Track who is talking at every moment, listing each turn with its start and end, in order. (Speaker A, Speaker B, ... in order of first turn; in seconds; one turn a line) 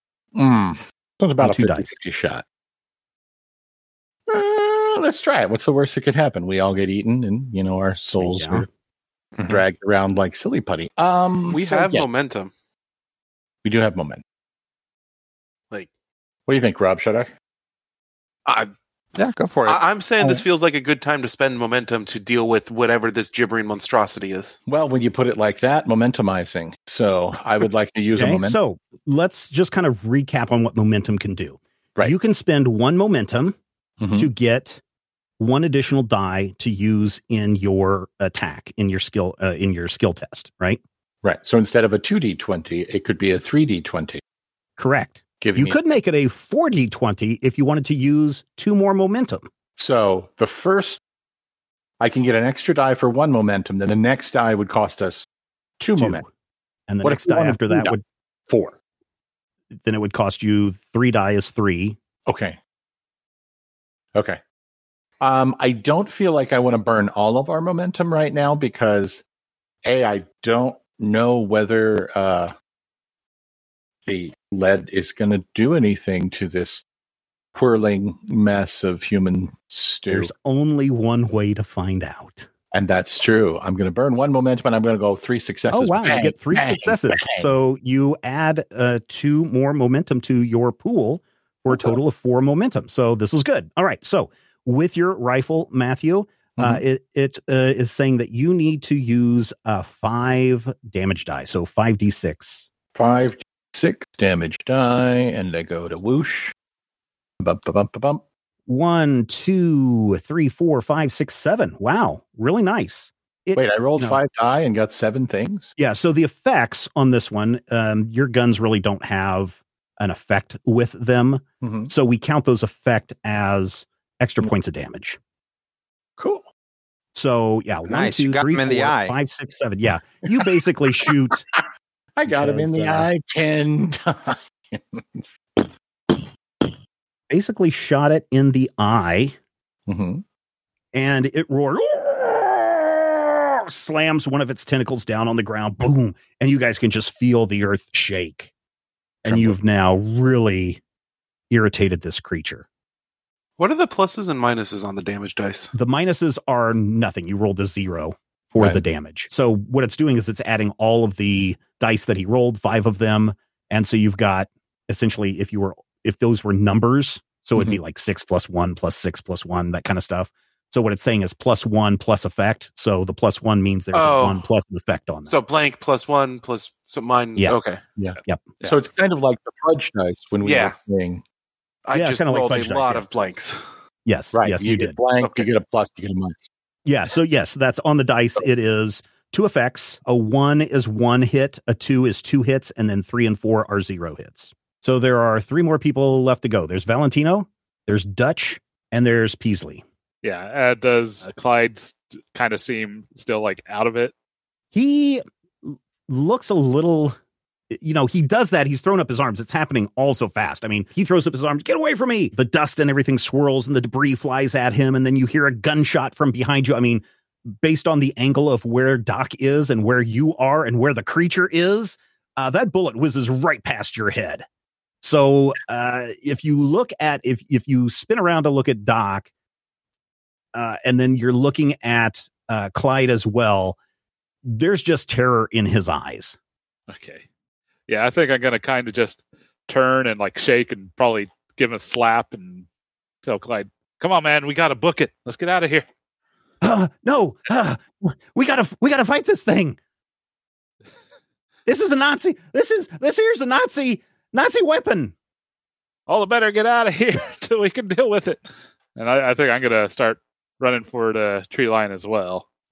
Speaker A: 0.3-2.4
Speaker B: 1.4-1.9
Speaker A: 4.3-8.7
Speaker B: 8.2-8.7
Speaker C: 9.4-9.6
Speaker A: 9.5-12.1
Speaker D: 11.5-12.5
Speaker A: 13.6-14.2
Speaker A: 16.5-17.3
Speaker D: 18.4-18.7
Speaker C: 19.1-19.8
Speaker D: 19.6-24.6
Speaker A: 24.7-28.6
Speaker B: 28.1-33.6
Speaker A: 34.0-34.3
Speaker B: 34.1-34.8
Speaker B: 35.4-40.8
Speaker A: 41.2-44.2
Speaker B: 44.8-49.5
Speaker A: 45.4-45.8
Speaker A: 49.8-51.0
Speaker A: 52.0-55.3
Speaker A: 55.8-56.2
Speaker B: 56.0-56.3
Speaker B: 56.9-58.7
Speaker A: 57.0-58.0
Speaker B: 59.8-62.0
Speaker A: 62.3-62.6
Speaker A: 64.1-64.4
Speaker A: 65.2-69.2
Speaker A: 69.8-72.5
Speaker A: 74.0-76.8
Speaker A: 77.5-80.3
Speaker B: 80.1-82.5
Speaker A: 82.7-87.5
Speaker B: 85.7-102.7
Speaker A: 91.7-92.0
Speaker A: 96.6-96.8
Speaker A: 102.9-106.5
Speaker A: 107.4-108.2
Speaker B: 108.7-114.2
Speaker A: 113.6-115.7
Speaker B: 115.8-125.2
Speaker A: 121.6-121.9
Speaker A: 126.2-126.5
Speaker B: 127.1-131.4
Speaker C: 127.9-129.1
Speaker A: 132.2-136.7
Speaker B: 132.3-133.1
Speaker B: 137.3-139.4
Speaker A: 139.9-140.2
Speaker B: 140.9-148.5
Speaker B: 149.2-150.8
Speaker A: 149.3-149.6
Speaker B: 151.5-152.7
Speaker D: 153.6-155.7
Speaker B: 155.7-175.3
Speaker D: 173.9-174.4
Speaker D: 175.3-177.8
Speaker A: 178.0-181.2
Speaker D: 180.4-180.8
Speaker D: 181.9-183.6
Speaker B: 181.9-183.1
Speaker B: 184.1-185.0
Speaker A: 184.3-186.4
Speaker B: 186.8-199.8
Speaker E: 200.2-204.1
Speaker B: 204.7-207.2
Speaker B: 207.7-224.4
Speaker B: 225.0-229.3
Speaker B: 230.5-233.8
Speaker B: 234.4-236.4
Speaker E: 236.9-237.2
Speaker E: 237.9-242.7
Speaker E: 243.2-245.9
Speaker B: 246.6-249.8
Speaker B: 251.7-255.1
Speaker E: 256.1-258.4
Speaker E: 258.9-262.4